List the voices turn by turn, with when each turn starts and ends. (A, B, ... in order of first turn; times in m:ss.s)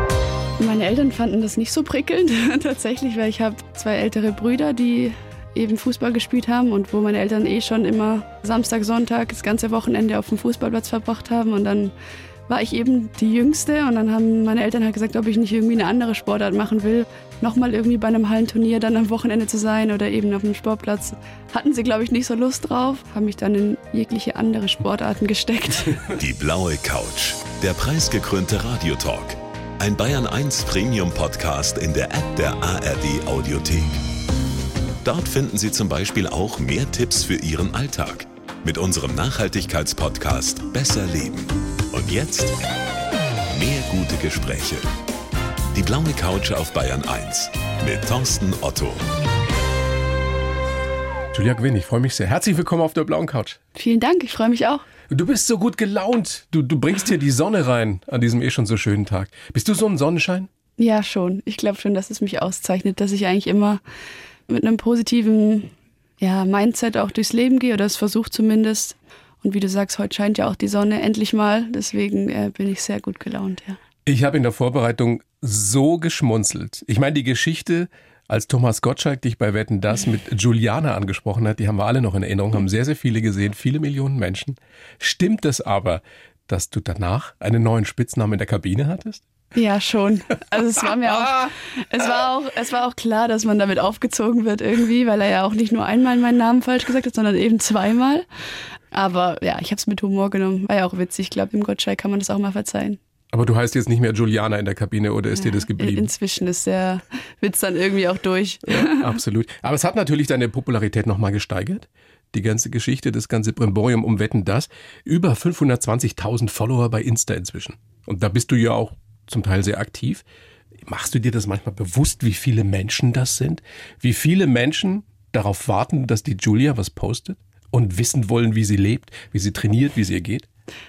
0:00.6-0:11.9 A
0:12.5-0:26.0 A
0:26.1-0:34.0 B
0:35.0-0:42.6 B
0:43.5-0:44.9 B
0:45.7-0:49.1 B
0:51.3-0:53.6 C
0:53.7-0:54.8 A
0:55.1-1:00.5 C
1:00.8-1:03.8 A
1:04.5-1:13.8 A
1:14.0-1:29.2 C
1:29.5-1:38.2 A
1:31.0-1:31.5 C
1:38.9-1:43.0 A
1:43.3-1:46.1 C
1:45.4-1:49.2 A
1:48.7-2:00.2 C
2:00.8-2:10.5 C